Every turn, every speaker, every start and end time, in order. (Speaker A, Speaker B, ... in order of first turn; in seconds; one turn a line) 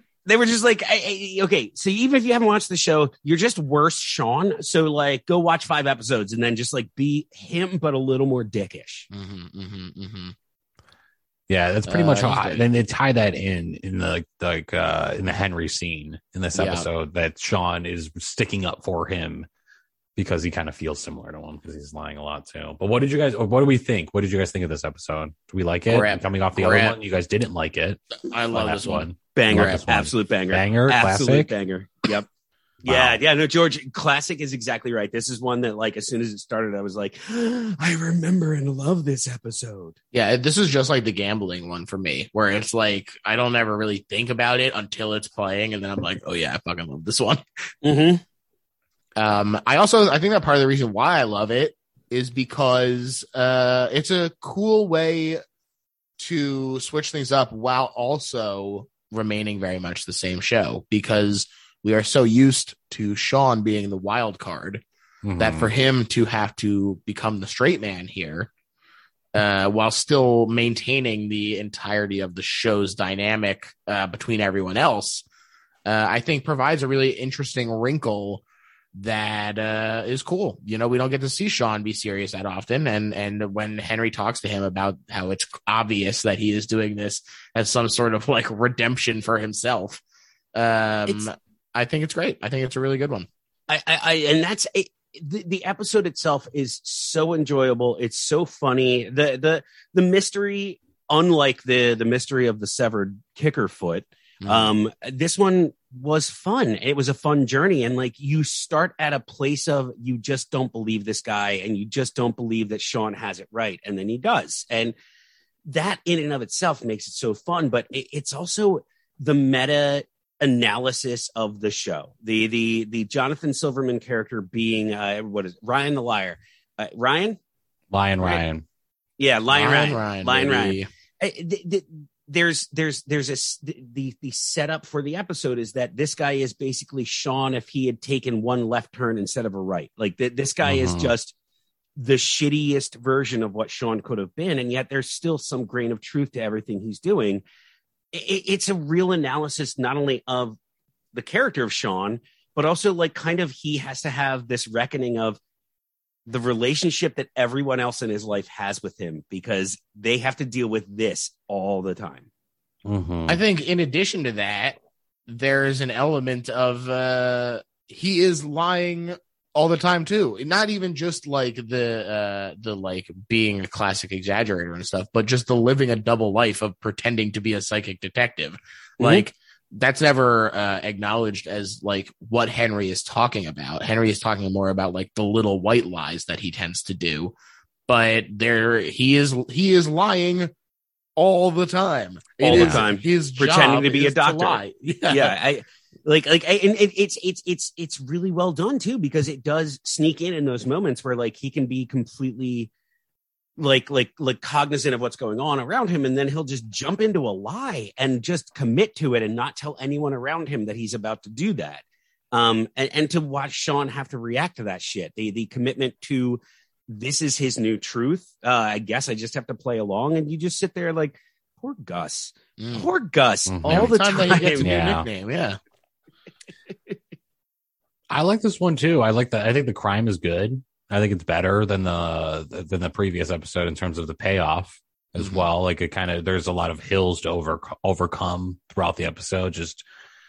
Speaker A: 0.3-9.1
Speaker B: 9.1-10.3
Speaker C: 11.5-19.5
Speaker B: 11.9-12.7
Speaker B: 16.5-16.9
Speaker C: 20.2-31.5
Speaker B: 25.9-27.0
Speaker B: 28.2-29.8
Speaker A: 29.4-32.3
Speaker A: 32.8-40.0
Speaker C: 32.9-33.2
Speaker B: 40.1-47.4
Speaker A: 47.8-48.2
Speaker B: 49.2-55.4
Speaker B: 56.2-64.8
Speaker C: 65.2-65.7
Speaker B: 65.4-68.5
Speaker B: 69.3-75.2
Speaker B: 75.9-90.0
Speaker B: 90.5-93.3
Speaker A: 93.7-115.0
Speaker B: 104.4-104.7
Speaker A: 115.7-127.4
Speaker C: 127.9-128.6
Speaker A: 129.2-141.3
Speaker B: 129.5-130.9
Speaker C: 140.6-141.1
Speaker A: 142.0-147.4
Speaker A: 148.1-150.6
Speaker A: 151.1-155.4
Speaker A: 156.3-162.3
Speaker C: 162.8-163.4
Speaker B: 163.3-187.3
Speaker A: 179.0-179.2
Speaker B: 187.9-190.5
Speaker B: 191.2-195.3
Speaker A: 192.4-202.7
Speaker C: 192.5-192.8
Speaker A: 203.6-224.7
Speaker B: 222.6-222.9
Speaker C: 223.5-223.9
Speaker B: 223.7-225.6
Speaker C: 224.6-225.1
Speaker C: 228.1-239.8
Speaker B: 235.2-235.4